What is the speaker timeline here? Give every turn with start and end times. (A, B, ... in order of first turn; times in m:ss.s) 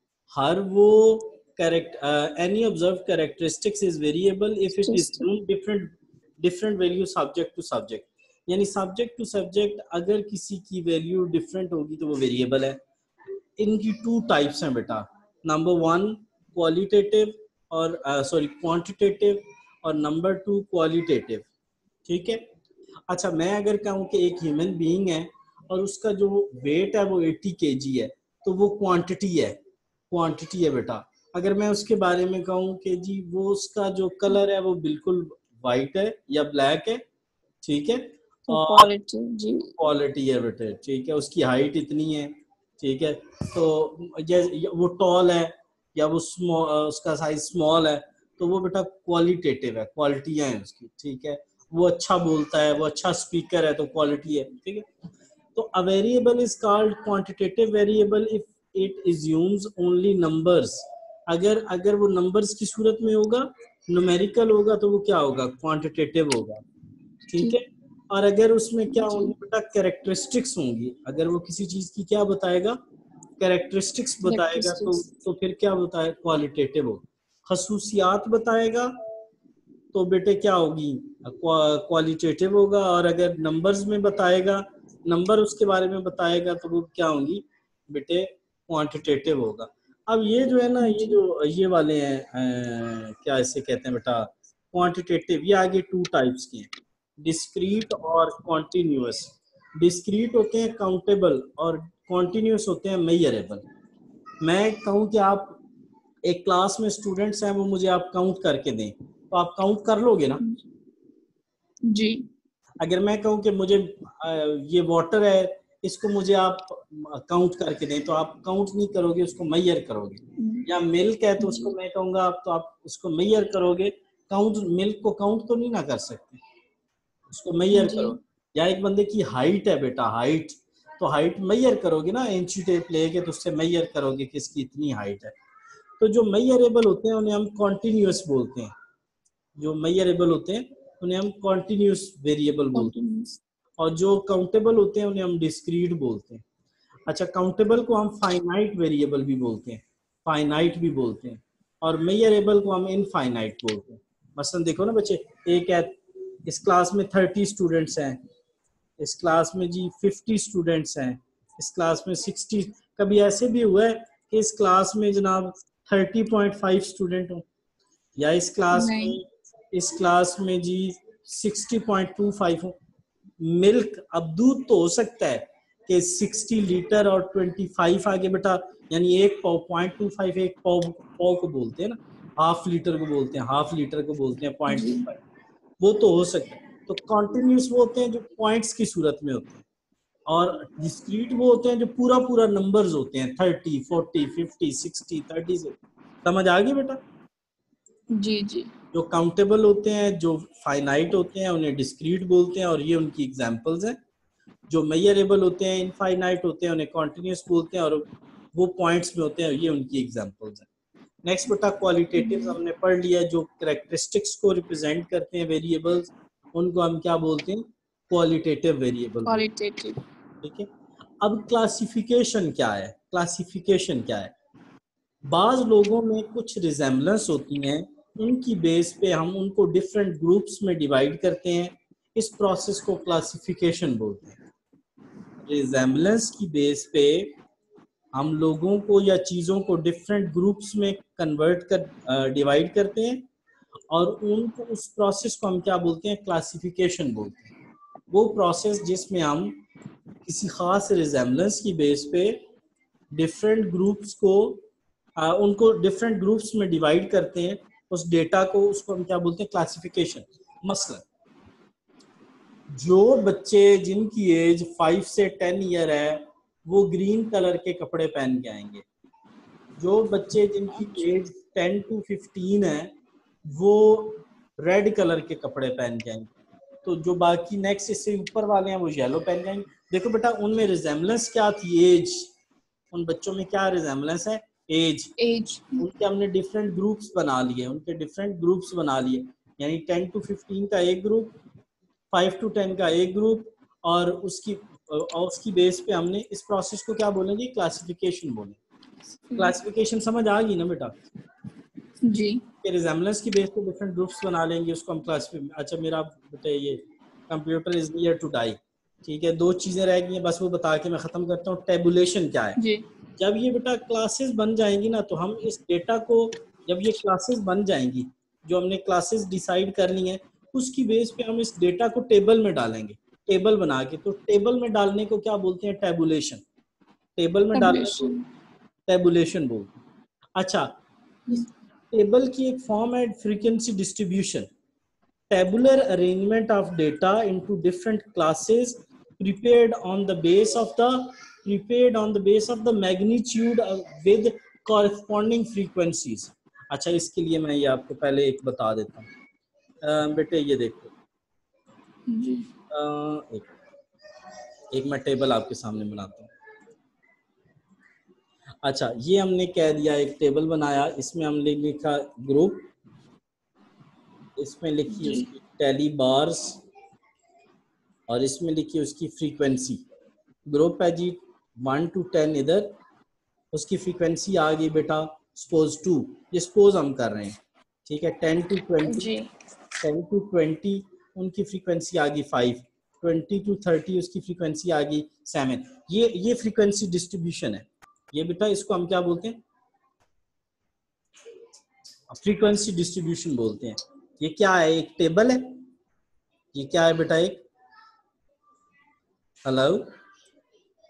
0:00.3-0:12.8 A
0:04.7-0:05.3 B
0:13.6-0:21.4 A
0:22.0-0:22.4 A
0:23.1-0:29.6 A
0:30.1-0:37.0 A
0:37.6-0:38.9 A
0:38.5-0:39.8 B
0:39.8-0:54.8 A
0:55.5-1:06.6 A
1:07.3-1:12.8 A
1:08.9-1:09.3 B
1:13.4-1:18.9 A
1:14.2-1:15.1 B
1:19.9-1:43.6 A
1:30.8-1:31.2 B
1:44.4-1:45.6 A
1:46.2-1:50.4 A
1:51.8-1:52.2 B
1:52.8-2:06.4 A
2:00.4-2:00.7 B
2:01.4-2:01.7 B
2:07.3-2:15.3 A
2:07.7-2:08.1 B
2:16.0-2:18.7 A
2:19.6-2:22.9 A
2:22.7-2:23.4 B
2:23.8-2:26.4 A
2:27.1-2:38.2 A
2:39.0-2:47.4 A
2:48.2-2:52.8 A
2:48.7-2:49.2 B
2:53.4-3:05.2 A
3:04.7-3:05.1 B
3:05.8-3:09.6 A
3:10.3-3:17.0 A
3:18.1-3:18.7 B
3:18.9-3:24.0 A
3:24.7-3:30.7 A
3:31.2-3:39.5 A
3:32.2-3:32.6 B
3:39.2-3:40.0 B
3:40.4-3:40.7 A
3:41.2-3:44.3 A
3:45.3-3:54.4 A
3:55.4-3:57.4 A
3:58.1-4:03.2 A
4:03.9-4:07.5 A
4:08.1-4:09.6 A
4:10.2-4:12.4 A
4:13.1-4:14.6 A
4:15.2-4:21.0 A
4:22.7-4:28.8 A
4:29.8-4:32.9 A
4:30.8-4:31.1 B
4:33.5-4:36.3 A
4:36.8-4:42.3 A
4:42.9-4:45.1 A
4:45.2-4:45.8 B
4:45.8-4:51.3 A
4:52.1-4:58.6 A
4:59.2-4:59.5 B
4:59.4-5:01.0 A
5:02.0-5:02.4 B
5:02.6-5:12.6 A
5:12.6-5:12.8 B
5:13.2-5:26.4 A
5:27.2-5:28.1 A
5:27.5-5:28.2 B
5:28.9-5:29.8 A
5:30.4-5:30.7 A
5:31.3-5:34.5 A
5:35.3-5:49.1 A
5:49.8-5:50.9 A
5:52.1-5:52.5 B
5:52.7-5:53.5 A
5:54.7-5:56.3 A
5:58.6-6:02.6 A
6:04.4-6:06.6 A
6:04.9-6:05.3 B
6:08.1-6:09.8 A
6:10.5-6:12.8 A
6:13.5-6:17.3 A
6:17.9-6:19.1 A
6:18.8-6:19.3 B
6:19.8-6:29.4 A
6:32.1-6:35.5 A
6:36.5-6:37.4 A
6:39.4-6:39.8 A